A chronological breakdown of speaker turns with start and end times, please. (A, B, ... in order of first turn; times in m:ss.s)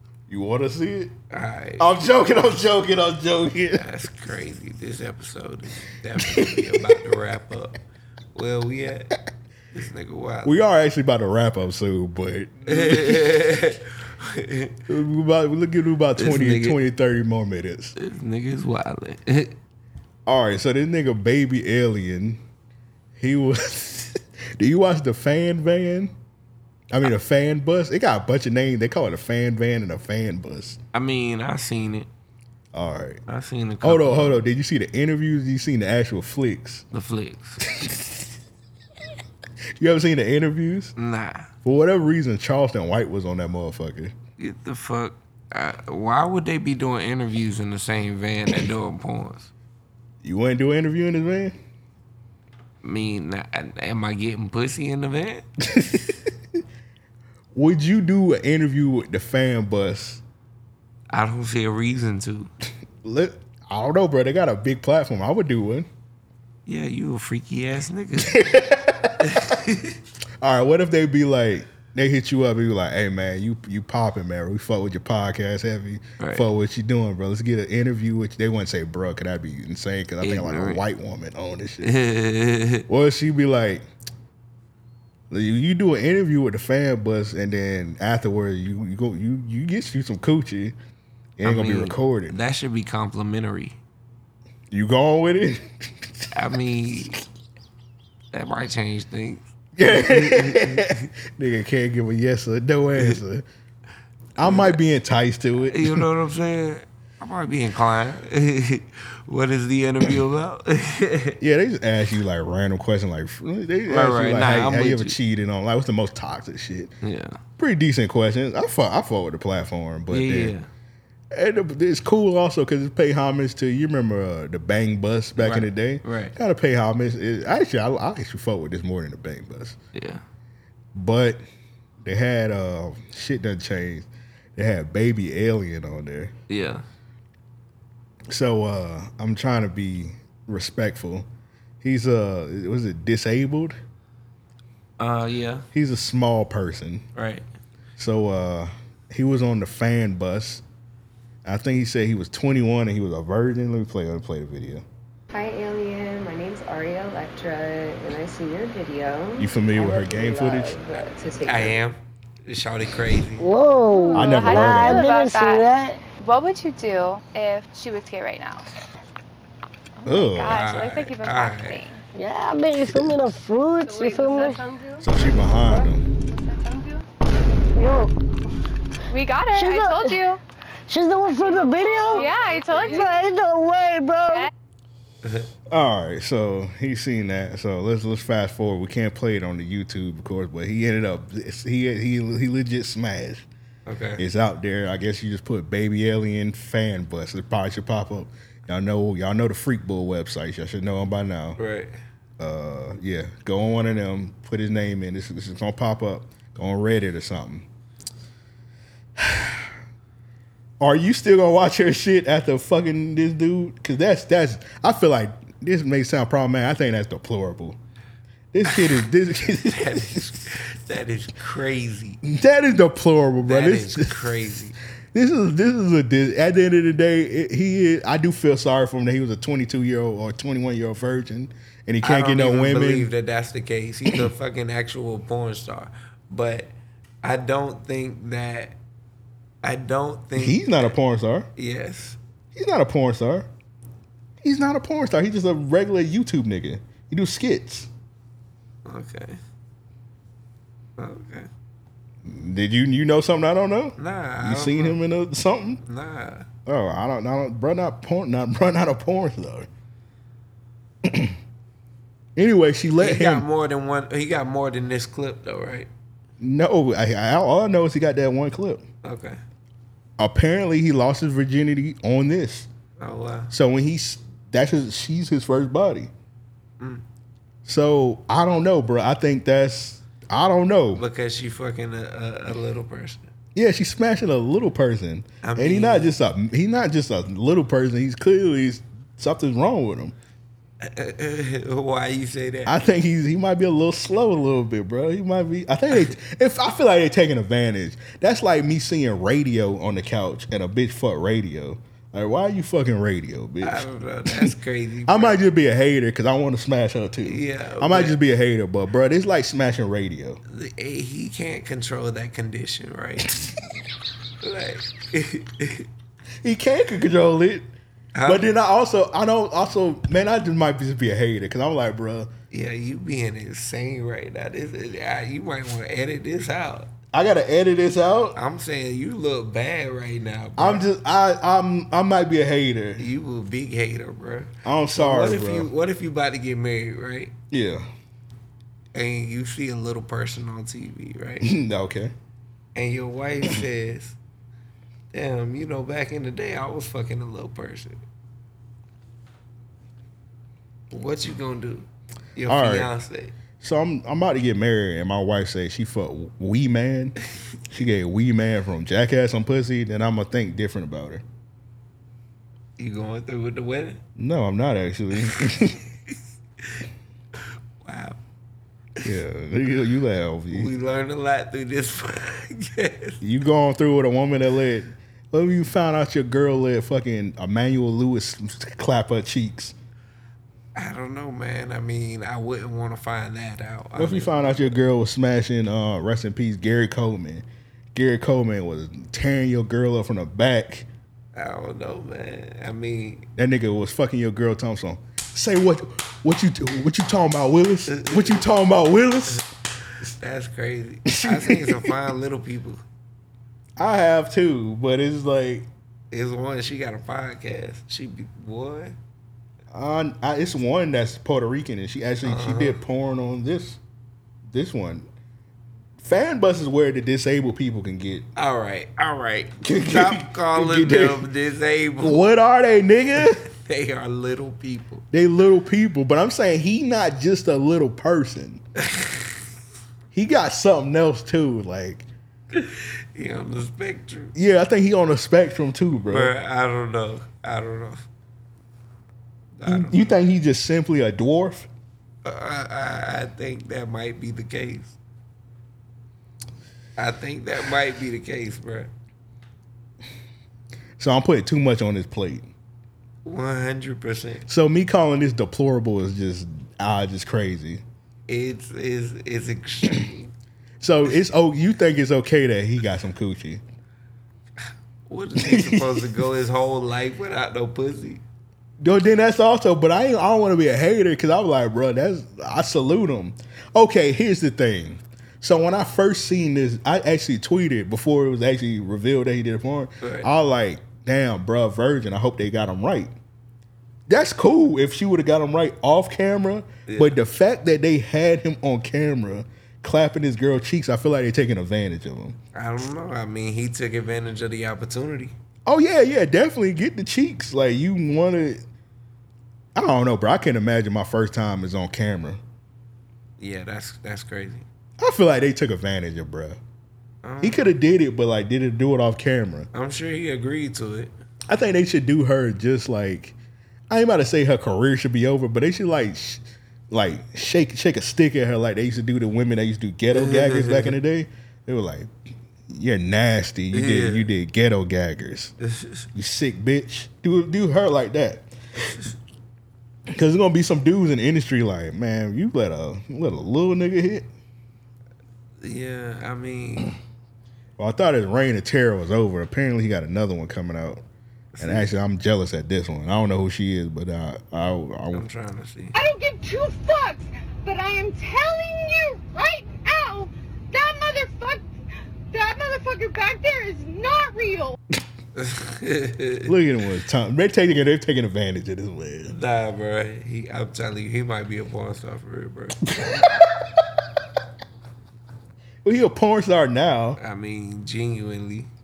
0:00.3-0:01.1 A
0:01.3-0:01.9 B
0:01.8-0:03.9 A
0:03.7-0:07.8 B
0:06.2-0:07.0 A
0:08.3-0:09.1 B
0:09.7-0:10.6 B
0:10.4-0:13.4 A
0:12.7-0:14.8 B
0:14.9-0:17.9 A
0:16.2-0:16.8 B
0:18.0-0:19.6 B
0:20.2-0:22.4 A
0:23.2-0:26.1 A
0:26.9-0:30.8 A
0:30.9-0:32.1 B
0:32.7-0:33.2 A
0:33.3-0:34.4 B
0:33.8-0:36.8 A
0:36.9-0:37.6 B
0:37.7-0:38.2 A
0:39.8-0:40.9 A
0:41.0-0:41.5 B
0:41.6-0:44.1 A
0:44.4-0:49.5 B
0:50.2-0:51.6 A
0:52.8-0:55.4 B
0:55.6-0:56.1 A
0:57.5-1:00.2 A
1:01.1-1:02.5 B
1:03.0-1:05.9 A
1:06.6-1:08.5 B
1:08.2-1:09.3 A
1:09.2-1:10.0 B
1:10.4-1:21.9 A
1:16.2-1:16.4 B
1:20.2-1:20.8 B
1:21.8-1:22.8 B
1:22.9-1:23.8 A
1:25.3-1:30.7 A
1:31.4-1:32.4 A
1:31.4-1:33.8 B
1:34.7-1:36.3 A
1:36.3-1:37.2 B
1:38.3-1:41.0 B
1:39.8-1:43.4 A
1:44.4-1:46.0 A
1:44.4-1:44.8 B
1:45.7-1:51.4 B
1:51.4-1:56.9 A
1:53.9-1:55.2 B
1:57.0-1:57.4 B
1:57.6-2:00.5 A
2:00.1-2:00.7 B
2:01.3-2:09.8 A
2:05.4-2:06.3 B
2:09.9-2:10.2 B
2:10.9-2:11.4 A
2:12.0-2:16.3 A
2:16.5-2:16.8 B
2:18.3-2:21.3 A
2:21.8-2:23.8 A
2:25.0-2:25.6 B
2:25.7-2:27.0 A
2:27.2-2:27.4 B
2:28.0-2:30.6 A
2:31.4-2:34.8 A
2:35.3-2:41.8 C
2:39.4-2:40.8 A
2:41.4-2:43.5 B
2:43.4-2:46.0 D
2:43.9-2:45.6 E
2:44.1-2:45.1 A
2:46.2-2:48.7 E
2:50.0-2:52.0 E
2:50.0-2:50.6 A
2:50.5-2:51.8 B
2:52.1-2:54.6 D
2:53.9-2:55.0 C
2:55.0-2:56.0 A
2:57.8-2:58.1 D
2:59.1-3:00.4 E
2:59.5-3:00.2 D
3:00.9-3:04.5 D
3:01.5-3:01.9 C
3:01.9-3:03.2 E
3:02.7-3:03.0 C
3:05.2-3:05.5 B
3:05.7-3:13.5 A
3:13.9-3:14.2 B
3:14.2-3:21.6 A
3:21.6-3:21.9 B
3:22.4-3:27.7 A
3:29.2-3:29.8 A
3:30.8-3:37.8 A
3:38.5-3:40.3 A
3:38.7-3:42.2 B
3:42.2-3:44.4 A
3:43.4-3:44.8 B
3:45.1-3:53.1 A
3:52.0-3:56.7 B
3:57.2-3:58.8 B
3:59.6-4:00.9 B
4:00.4-4:01.5 A
4:01.6-4:02.2 B
4:02.5-4:03.5 A
4:04.4-4:07.9 A
4:08.8-4:09.4 B
4:11.0-4:11.5 B
4:12.2-4:15.8 A
4:14.0-4:15.0 B
4:15.8-4:16.4 B
4:16.6-4:19.7 A
4:21.0-4:21.4 A
4:22.4-4:23.4 A
4:23.0-4:25.9 B
4:26.4-4:28.8 A
4:29.0-4:29.4 B
4:30.2-4:32.7 A
4:33.0-4:33.5 B
4:33.5-4:36.1 A
4:37.6-4:41.0 A
4:40.9-4:43.3 B
4:43.6-4:50.1 A
4:45.4-4:46.1 B
4:50.8-4:52.7 B
4:52.6-5:04.5 A
5:03.6-5:05.4 B
5:05.1-5:10.4 A
5:07.2-5:08.2 B
5:10.5-5:13.4 B
5:14.4-5:15.9 B
5:16.4-5:17.7 A
5:18.1-5:18.4 B
5:18.2-5:22.3 A
5:22.5-5:26.9 B
5:27.1-5:28.4 A
5:28.3-5:30.8 B
5:30.6-5:33.0 A
5:33.0-5:37.3 B
5:34.6-5:35.7 A
5:37.5-5:37.9 A
5:38.9-5:41.5 B
5:41.4-5:42.1 A
5:42.8-5:44.2 B
5:45.1-5:48.0 B
5:50.9-5:53.3 B
5:52.5-5:52.9 A
5:53.6-5:57.2 A
5:57.7-6:01.2 A
6:02.8-6:04.0 B
6:04.2-6:05.8 A
6:07.8-6:08.2 B
6:09.0-6:10.7 A
6:10.5-6:13.2 B
6:13.2-6:19.7 A
6:20.7-6:24.8 B
6:24.0-6:30.9 A
6:31.3-6:33.2 B
6:33.4-6:39.4 A
6:37.9-6:38.4 B
6:40.2-6:42.8 B
6:41.1-6:41.9 A
6:43.8-6:45.7 A
6:46.1-6:48.9 B
6:49.7-6:53.8 A
6:52.2-6:52.8 B
6:54.5-6:55.0 A
6:56.0-6:58.2 A
6:58.4-7:02.2 B
6:59.6-7:01.2 A
7:02.0-7:03.4 A
7:03.2-7:05.0 B
7:05.1-7:08.6 A
7:08.8-7:09.3 B
7:10.1-7:12.0 A
7:12.5-7:14.3 B
7:14.3-7:16.3 A
7:16.1-7:18.0 B
7:19.6-7:20.1 B
7:19.7-7:21.7 A
7:22.2-7:25.0 B
7:27.0-7:28.9 B
7:31.0-7:32.5 A
7:33.2-7:34.4 B
7:34.5-7:37.8 A
7:38.3-7:40.3 B
7:40.8-7:43.6 A
7:45.1-7:48.2 B
7:45.4-7:46.1 A
7:48.8-8:03.1 A
8:00.0-8:00.3 B
8:04.1-8:12.4 A
8:06.9-8:07.2 B
8:12.5-8:15.3 B
8:15.6-8:18.6 A
8:19.7-8:22.4 A
8:23.4-8:24.6 B
8:25.0-8:26.6 A
8:27.2-8:27.7 B
8:27.4-8:29.7 A
8:29.7-8:31.1 B
8:31.5-8:33.3 A
8:33.9-8:42.1 A
8:40.1-8:41.0 B
8:42.7-8:45.5 A
8:43.7-8:44.3 B
8:45.6-8:46.1 B
8:46.1-8:48.5 A
8:50.1-8:54.3 A
8:55.6-8:57.0 B
8:57.8-9:01.0 A
9:01.6-9:01.9 B
9:01.6-9:05.2 A
9:05.1-9:06.0 B
9:05.9-9:11.6 F
9:12.3-9:14.8 F
9:15.4-9:16.5 B
9:16.4-9:19.3 A
9:19.3-9:23.1 B
9:25.8-9:27.2 A
9:27.2-9:28.7 B